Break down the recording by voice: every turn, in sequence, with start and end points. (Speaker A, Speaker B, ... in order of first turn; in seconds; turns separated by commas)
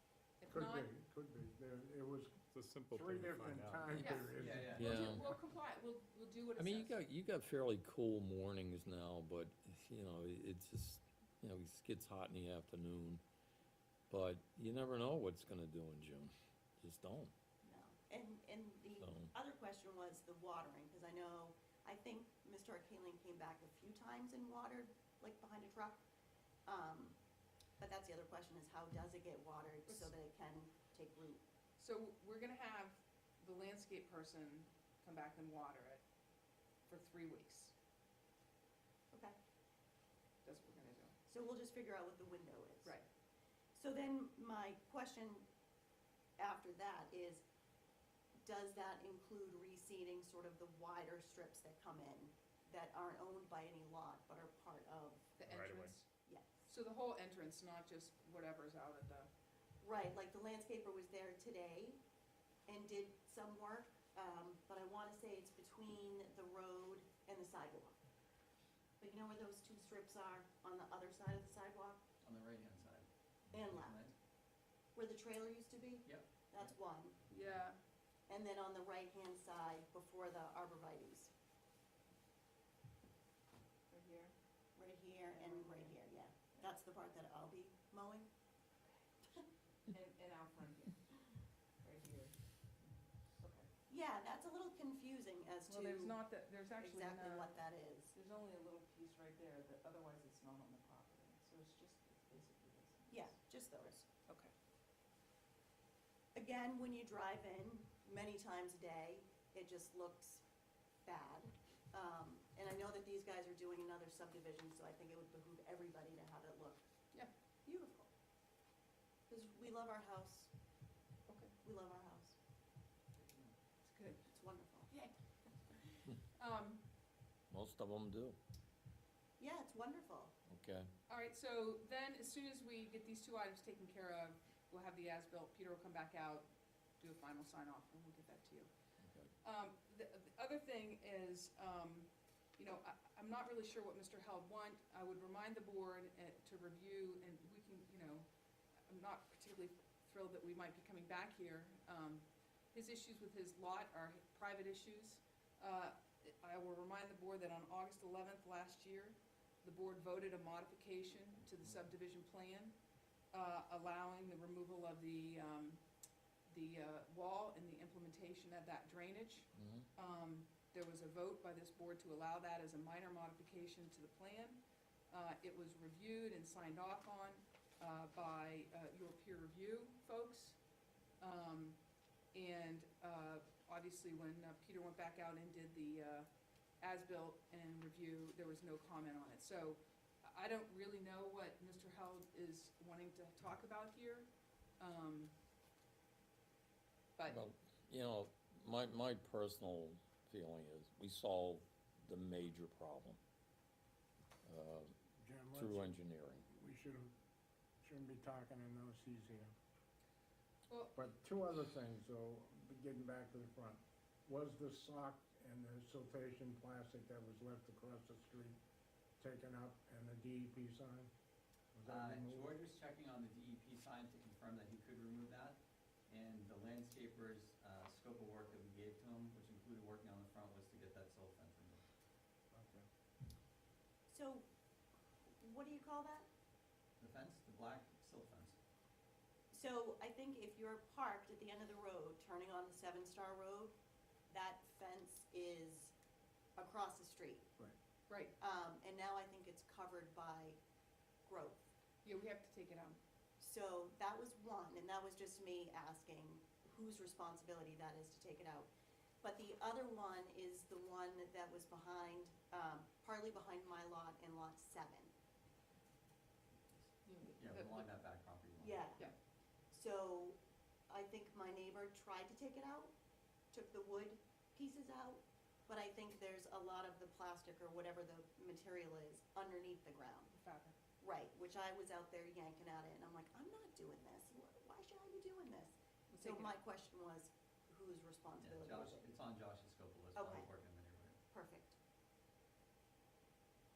Speaker A: 0.4-0.9, Speaker B: 0.5-2.4, Speaker C: 2.5-4.3, Speaker B: 2.9-5.2, Speaker A: 4.0-7.0, Speaker D: 4.4-5.2, Speaker E: 4.7-5.3, Speaker E: 6.6-13.2, Speaker E: 14.1-17.3, Speaker F: 17.6-26.0, Speaker E: 19.0-19.3, Speaker F: 26.7-27.2, Speaker F: 27.8-31.4, Speaker A: 29.9-30.1, Speaker A: 31.8-36.0, Speaker A: 36.9-37.7, Speaker F: 39.1-39.4, Speaker A: 40.4-41.1, Speaker F: 41.3-43.0, Speaker F: 43.8-45.5, Speaker F: 46.4-47.4, Speaker F: 48.4-55.4, Speaker A: 55.4-56.1, Speaker C: 55.5-56.0, Speaker F: 56.3-56.6, Speaker A: 56.7-59.3, Speaker F: 59.8-62.0, Speaker F: 62.7-68.0, Speaker F: 69.0-72.0, Speaker D: 72.2-73.1, Speaker F: 73.5-74.1, Speaker D: 73.6-74.1, Speaker F: 75.0-77.2, Speaker D: 76.0-76.7, Speaker A: 77.3-77.8, Speaker F: 78.3-81.3, Speaker A: 83.9-84.3, Speaker F: 84.8-88.3, Speaker A: 85.3-86.0, Speaker A: 89.9-91.0, Speaker A: 91.8-93.7, Speaker F: 93.9-96.2, Speaker A: 95.7-97.6, Speaker F: 96.8-98.1, Speaker A: 98.1-104.5, Speaker F: 103.1-104.0, Speaker F: 106.3-110.4, Speaker F: 111.0-116.8, Speaker F: 117.7-118.1, Speaker F: 119.3-120.5, Speaker A: 121.3-121.5, Speaker F: 121.6-122.4, Speaker D: 123.2-123.5, Speaker A: 123.8-124.2, Speaker F: 124.3-124.9, Speaker A: 124.9-125.2, Speaker A: 125.7-126.9, Speaker E: 127.5-128.4, Speaker F: 129.4-130.3, Speaker E: 130.5-130.9, Speaker A: 131.1-136.5, Speaker A: 137.0-138.7, Speaker E: 139.0-139.3, Speaker A: 139.4-148.3, Speaker A: 148.9-162.8, Speaker A: 163.3-165.8, Speaker A: 166.5-180.6, Speaker E: 169.6-169.9, Speaker A: 181.2-181.8, Speaker A: 182.3-186.3, Speaker A: 186.8-195.3, Speaker A: 197.2-197.4, Speaker E: 197.2-203.2, Speaker E: 204.5-204.9, Speaker B: 205.2-206.0, Speaker E: 205.5-206.5, Speaker B: 206.5-207.1, Speaker B: 207.8-209.5, Speaker A: 210.7-211.1, Speaker B: 211.0-218.6, Speaker B: 219.2-221.1, Speaker B: 221.7-222.5, Speaker D: 221.9-231.8, Speaker B: 232.5-232.9, Speaker F: 234.1-234.5, Speaker F: 235.3-236.3, Speaker D: 237.0-238.6, Speaker F: 239.5-243.8, Speaker F: 244.3-245.9, Speaker F: 246.6-247.5, Speaker A: 248.1-248.3, Speaker F: 248.4-250.6, Speaker F: 251.3-251.7, Speaker A: 252.0-253.0, Speaker F: 253.4-258.7, Speaker F: 259.2-265.1, Speaker A: 267.1-267.9, Speaker D: 267.4-268.9, Speaker F: 268.6-269.1, Speaker F: 269.7-270.4, Speaker F: 270.9-272.9, Speaker F: 273.5-280.4, Speaker A: 280.3-280.8, Speaker F: 281.0-289.1, Speaker A: 286.1-286.6, Speaker D: 288.4-291.2, Speaker F: 290.1-290.5, Speaker F: 291.3-291.8